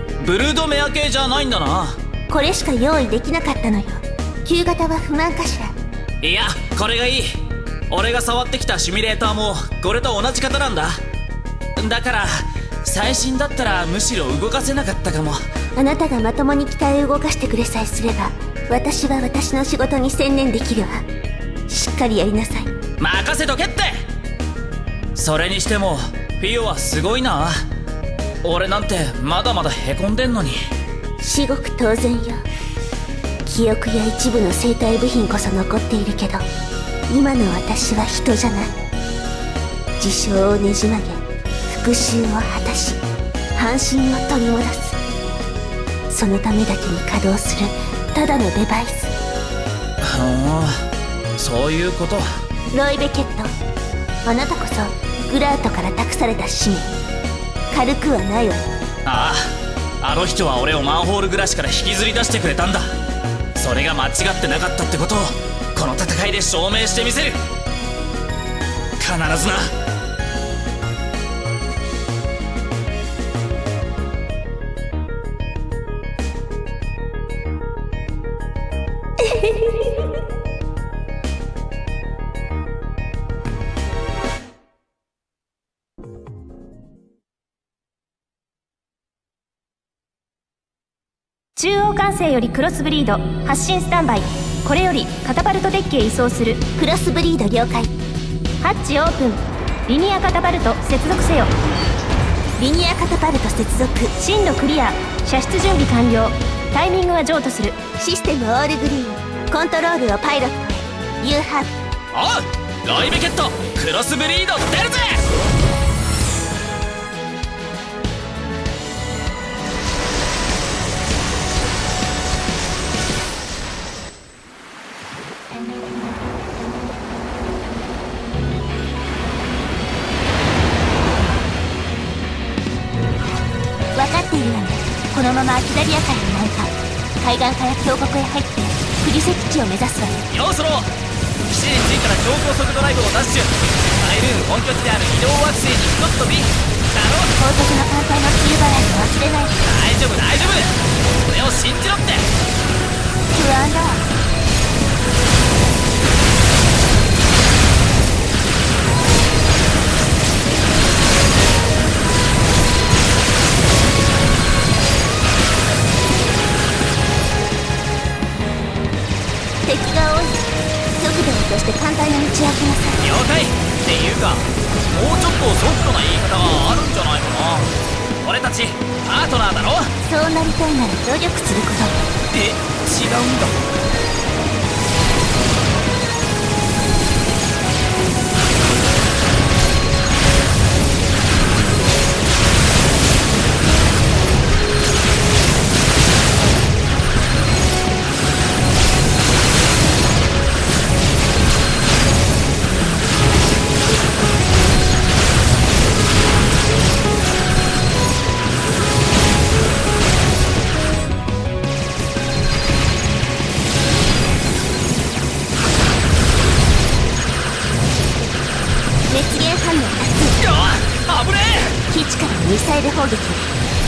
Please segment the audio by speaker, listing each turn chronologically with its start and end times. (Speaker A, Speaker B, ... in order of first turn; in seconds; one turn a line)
Speaker A: 0.2-2.0
Speaker B: 2.3-5.7
Speaker A: 6.2-7.4
Speaker A: 7.9-11.0
Speaker A: 11.8-15.4
Speaker B: 15.8-21.0
Speaker B: 21.7-22.7
Speaker A: 23.0-24.0
Speaker A: 25.2-27.6
Speaker A: 28.4-30.6
Speaker B: 31.2-32.4
Speaker B: 33.5-36.5
Speaker B: 37.1-38.7
Speaker B: 40.0-43.0
Speaker B: 43.5-45.0
Speaker B: 46.1-49.1
Speaker A: 50.0-50.8
Speaker A: 51.4-52.3
Speaker B: 52.7-53.5
Speaker B: 54.2-56.9
Speaker B: 57.7-58.7
Speaker A: 59.1-62.9
Speaker A: 63.5-67.4
Speaker A: 69.0-69.7
Speaker B: 79.3-79.9
Speaker C: 91.6-96.7
Speaker B: 96.8-97.9
Speaker C: 98.6-101.5
Speaker B: 102.6-104.2
Speaker C: 104.2-107.8
Speaker B: 108.0-111.7
Speaker A: 112.1-115.2
Speaker B: 133.9-140.3
Speaker A: 140.3-140.9
Speaker A: 141.5-147.3
Speaker B: 147.4-149.6
Speaker A: 149.6-152.3
Speaker B: 153.3-154.1
Speaker B: 169.6-173.0
Speaker A: 173.0-179.9
Speaker B: 180.1-182.0
Speaker A: 182.3-183.7
Speaker B: 219.1-220.4
Speaker A: 220.4-221.8
Speaker B: 221.9-223.5